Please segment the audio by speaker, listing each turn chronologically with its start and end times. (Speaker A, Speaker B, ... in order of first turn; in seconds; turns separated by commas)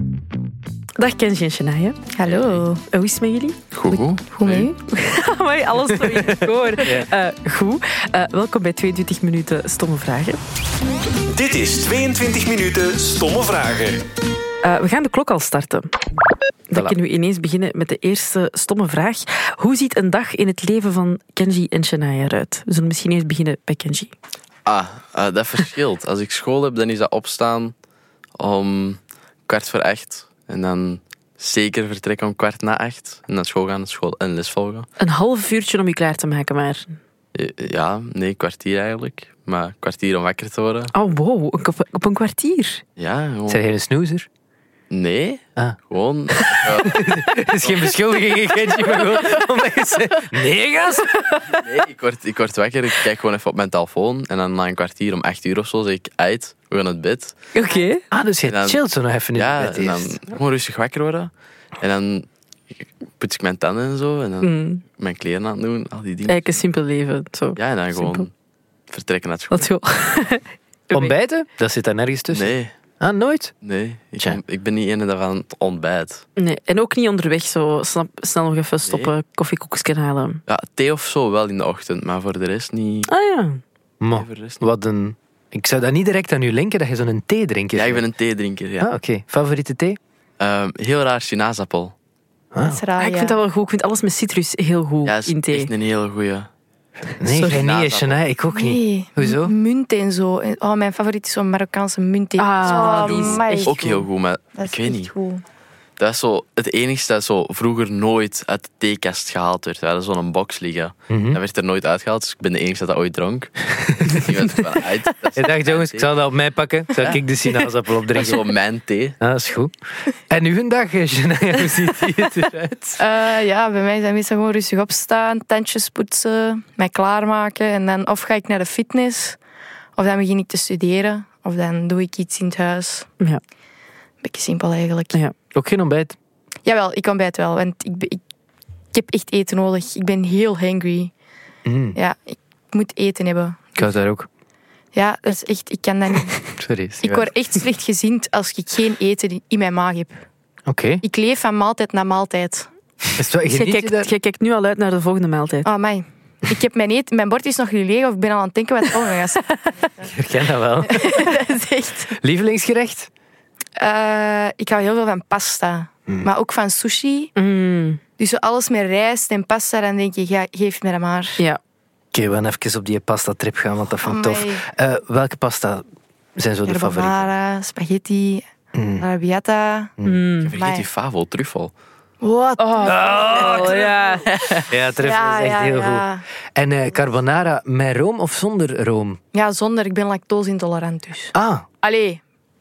Speaker A: 1.0-2.0, Speaker B: 2.1-2.8, Speaker C: 2.3-2.6, Speaker A: 2.9-3.6, Speaker C: 3.7-4.7, Speaker B: 3.9-4.8, Speaker A: 4.9-10.4, Speaker D: 6.1-7.1, Speaker E: 11.3-14.0, Speaker A: 14.6-15.9, Speaker A: 16.7-24.1, Speaker C: 24.6-27.8, Speaker C: 28.4-34.9, Speaker A: 35.0-37.0, Speaker C: 37.4-40.9, Speaker A: 40.9-42.8, Speaker C: 43.0-43.6, Speaker D: 43.5-44.3, Speaker C: 44.9-47.9, Speaker D: 46.7-51.3, Speaker C: 51.5-57.4, Speaker A: 57.5-58.0, Speaker D: 58.1-60.2, Speaker C: 58.4-58.8, Speaker C: 59.3-62.3, Speaker C: 63.2-66.5, Speaker A: 64.4-64.8, Speaker A: 66.3-68.3, Speaker C: 67.6-68.3, Speaker C: 68.9-69.6, Speaker A: 69.5-71.2, Speaker D: 70.9-73.5, Speaker C: 72.3-72.7, Speaker C: 73.6-76.2, Speaker A: 76.4-80.4, Speaker C: 78.8-79.1, Speaker C: 80.5-83.1, Speaker A: 83.1-83.6, Speaker D: 84.0-88.0, Speaker C: 84.1-84.6, Speaker C: 87.8-88.9, Speaker D: 88.8-90.0, Speaker C: 90.4-91.9, Speaker D: 92.5-92.8, Speaker B: 92.6-93.4, Speaker A: 93.0-95.7, Speaker C: 95.0-96.5, Speaker D: 97.2-99.5, Speaker A: 97.3-97.6, Speaker C: 97.4-98.2, Speaker B: 98.5-103.8, Speaker A: 102.4-104.0, Speaker C: 102.6-105.1, Speaker B: 104.5-105.4, Speaker C: 106.0-116.1, Speaker D: 111.1-111.4, Speaker D: 113.9-114.2, Speaker D: 115.4-118.5, Speaker C: 117.0-117.2, Speaker C: 118.1-119.2, Speaker D: 119.2-119.7, Speaker D: 120.3-123.0, Speaker B: 123.0-129.4, Speaker B: 130.0-133.1, Speaker B: 134.2-135.2, Speaker D: 135.6-136.2, Speaker B: 136.7-138.2, Speaker B: 138.9-141.1, Speaker D: 141.7-142.0, Speaker B: 141.9-143.9, Speaker D: 143.8-144.3, Speaker B: 144.9-146.4, Speaker D: 146.6-147.3, Speaker B: 147.0-150.2, Speaker D: 150.7-151.0, Speaker B: 151.0-152.7, Speaker D: 153.2-154.1, Speaker A: 153.5-155.7, Speaker B: 155.7-160.0, Speaker D: 160.0-161.4, Speaker B: 160.9-162.1, Speaker D: 162.2-163.1, Speaker B: 163.8-167.3, Speaker A: 167.4-168.0, Speaker B: 168.2-171.4, Speaker D: 172.1-175.8, Speaker B: 174.0-174.6, Speaker D: 176.4-177.3, Speaker B: 176.7-178.5, Speaker D: 178.7-179.0, Speaker B: 179.0-179.9, Speaker D: 180.0-180.3, Speaker A: 180.1-180.5, Speaker C: 180.4-181.7, Speaker B: 180.5-180.9, Speaker B: 182.2-184.1, Speaker A: 182.6-184.3, Speaker D: 182.8-183.9, Speaker C: 184.3-184.7, Speaker D: 184.7-189.2, Speaker B: 185.0-186.2, Speaker B: 189.3-192.2, Speaker D: 191.3-191.7